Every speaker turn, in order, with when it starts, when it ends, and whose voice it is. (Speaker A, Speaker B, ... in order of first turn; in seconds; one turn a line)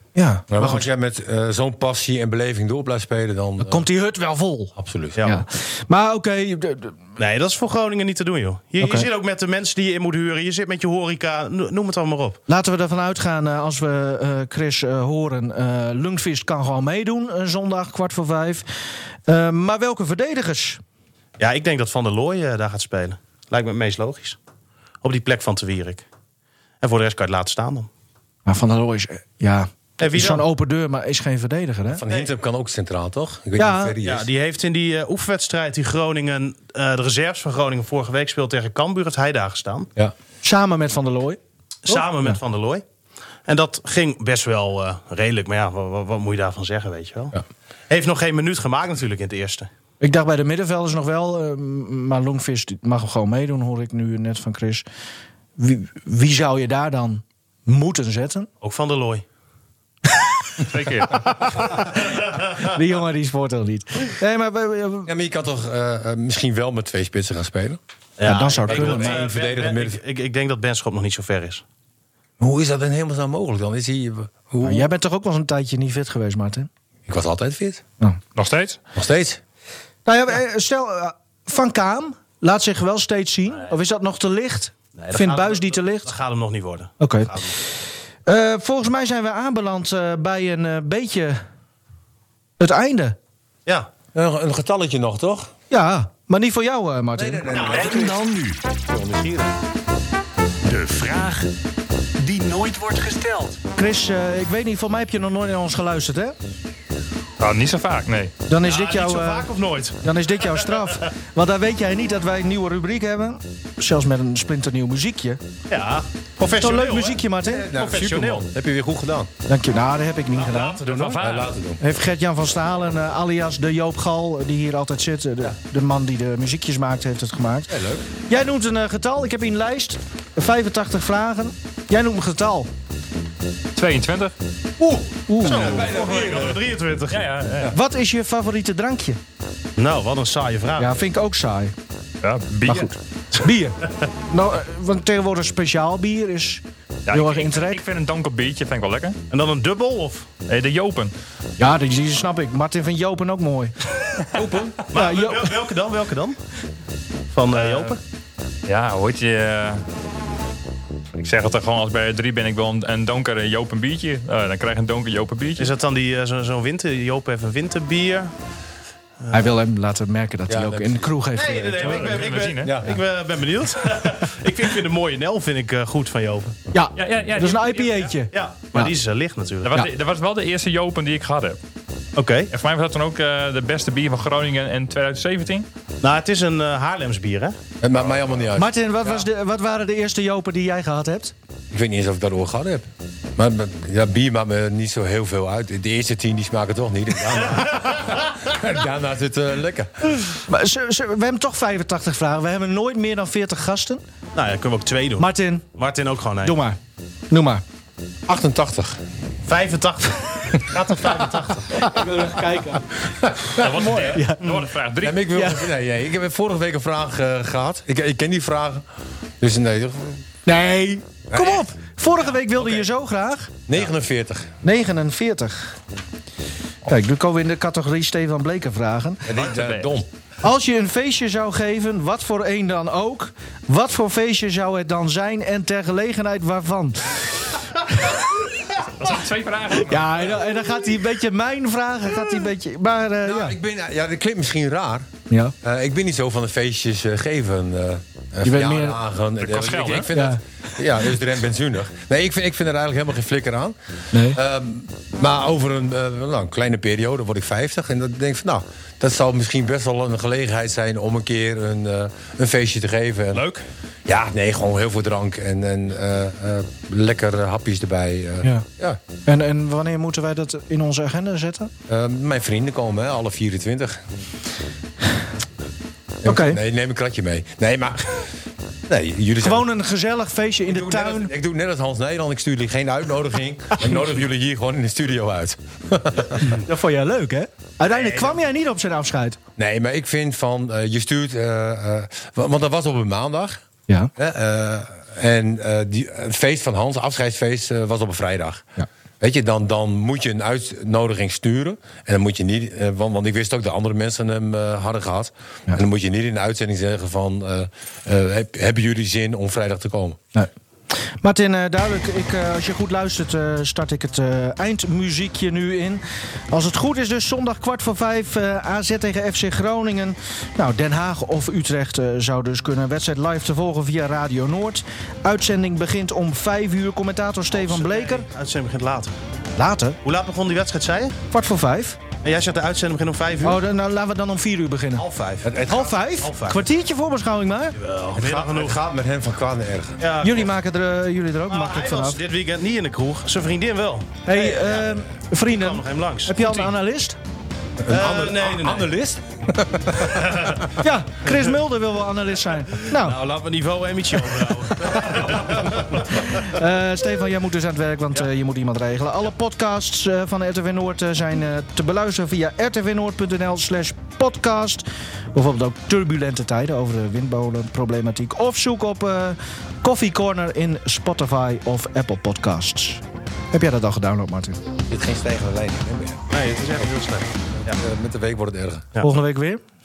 Speaker A: 0.2-0.9
Speaker B: 0.5-3.9
Speaker A: 3.6-7.0
Speaker B: 4.8-5.2
Speaker C: 5.2-5.4
Speaker C: 7.2-12.4
Speaker A: 8.8-9.1
Speaker A: 12.5-18.7
Speaker A: 19.3-20.8
Speaker C: 21.4-24.4
Speaker C: 25.0-26.1
Speaker C: 26.8-27.9
Speaker A: 28.5-32.0
Speaker C: 30.0-30.4
Speaker B: 31.9-34.3
Speaker A: 33.6-34.0
Speaker C: 34.0-39.9
Speaker A: 40.4-42.4
Speaker C: 41.9-42.8
Speaker C: 43.5-47.4
Speaker C: 47.9-49.7
Speaker A: 50.0-54.9
Speaker A: 55.6-58.5
Speaker C: 58.6-59.2
Speaker D: 60.6-61.6
Speaker A: 61.3-65.1
Speaker B: 65.1-67.8
Speaker C: 68.2-71.6
Speaker A: 68.2-69.2
Speaker B: 68.6-70.0
Speaker B: 72.4-74.9
Speaker A: 74.6-76.7
Speaker B: 77.1-77.8
Speaker D: 78.4-78.8
Speaker B: 79.0-79.4
Speaker A: 80.1-86.1
Speaker C: 85.0-87.5
Speaker A: 87.0-87.3
Speaker A: 88.3-91.4
Speaker A: 92.6-93.2
Speaker B: 94.1-95.5
Speaker A: 95.7-97.9
Speaker B: 97.2-99.5
Speaker E: 97.6-98.7
Speaker E: 100.7-101.5
Speaker E: 102.2-103.6
Speaker A: 103.8-106.4
Speaker D: 107.4-108.3
Speaker A: 108.5-115.4
Speaker C: 108.6-110.6
Speaker C: 115.7-118.5
Speaker A: 116.5-117.7
Speaker B: 117.4-119.3
Speaker A: 119.5-120.8
Speaker C: 120.3-121.4
Speaker D: 120.9-121.5
Speaker B: 121.2-121.8
Speaker A: 121.8-127.7
Speaker B: 127.7-128.1
Speaker A: 128.3-132.7
Speaker D: 133.8-134.3
Speaker A: 134.8-135.9
Speaker B: 135.4-136.7
Speaker C: 135.4-137.2
Speaker D: 137.1-137.8
Speaker A: 137.7-139.2
Speaker C: 139.8-141.1
Speaker A: 140.8-141.7
Speaker D: 142.2-142.9
Speaker A: 142.7-143.8
Speaker A: 144.3-147.8
Speaker D: 147.1-149.2
Speaker C: 149.3-150.3
Speaker D: 150.5-151.1
Speaker A: 151.6-153.7
Speaker B: 154.3-154.8
Speaker A: 154.9-155.6
Speaker C: 154.9-156.4
Speaker C: 157.3-158.0
Speaker D: 157.5-158.0
Speaker D: 158.7-159.8
Speaker D: 161.2-165.7
Speaker C: 165.6-168.3
Speaker A: 169.3-172.2
Speaker B: 170.5-171.2
Speaker C: 171.3-176.6
Speaker D: 171.8-172.7
Speaker B: 172.6-173.0
Speaker A: 176.7-178.9
Speaker D: 177.0-178.1
Speaker C: 177.8-179.7
Speaker D: 179.6-181.6
Speaker C: 182.2-182.5
Speaker D: 182.5-185.7
Speaker C: 186.0-187.6
Speaker B: 187.8-188.7
Speaker A: 188.6-191.3
Speaker B: 191.7-200.2
Speaker C: 197.6-198.0
Speaker A: 200.5-204.0
Speaker C: 204.3-206.6
Speaker A: 205.2-205.7
Speaker A: 206.4-206.8
Speaker A: 207.3-207.6
Speaker B: 208.3-209.0
Speaker C: 209.5-211.9
Speaker A: 211.8-212.9
Speaker B: 213.1-214.1
Speaker D: 213.6-215.4
Speaker A: 213.8-214.4
Speaker B: 215.0-218.9
Speaker A: 215.3-215.7
Speaker B: 219.4-220.2
Speaker A: 220.5-223.6
Speaker B: 221.3-221.7
Speaker B: 223.7-224.5
Speaker A: 224.6-225.8
Speaker A: 226.9-229.2
Speaker B: 229.2-230.1
Speaker D: 229.3-229.9
Speaker A: 230.4-237.9
Speaker D: 239.0-240.4
Speaker A: 239.8-243.6
Speaker B: 243.2-245.1
Speaker B: 245.6-253.8
Speaker A: 248.4-249.0
Speaker D: 249.4-250.1
Speaker A: 250.1-250.4
Speaker A: 254.1-254.4
Speaker B: 254.3-263.4
Speaker D: 263.3-263.6
Speaker B: 264.1-269.0
Speaker A: 269.3-271.7
Speaker B: 271.9-274.0
Speaker B: 276.2-278.3
Speaker A: 276.2-276.6
Speaker B: 278.9-279.7
Speaker A: 279.4-281.3
Speaker B: 280.7-286.6
Speaker A: 286.4-289.4
Speaker C: 287.9-288.4
Speaker B: 289.6-293.6
Speaker B: 294.2-298.7
Speaker B: 299.2-310.2
Speaker A: 311.2-328.3
Speaker C: 327.5-329.1
Speaker A: 329.6-330.0
Speaker C: 330.0-331.2
Speaker A: 331.3-332.0
Speaker C: 332.2-333.6
Speaker A: 333.4-335.0
Speaker C: 335.0-336.6
Speaker B: 335.4-335.9
Speaker A: 335.7-337.8
Speaker C: 337.8-338.8
Speaker B: 338.1-340.0
Speaker C: 340.0-340.5
Speaker A: 340.2-342.2
Speaker C: 341.5-346.6
Speaker A: 344.3-347.2
Speaker B: 347.8-350.6
Speaker C: 347.9-348.9
Speaker C: 350.2-350.6
Speaker A: 350.8-353.2
Speaker C: 352.9-356.4
Speaker A: 354.9-355.4
Speaker A: 356.2-373.0
Speaker A: 373.5-374.6
Speaker B: 374.9-376.2
Speaker C: 376.3-377.8
Speaker B: 377.6-378.9
Speaker A: 379.0-379.6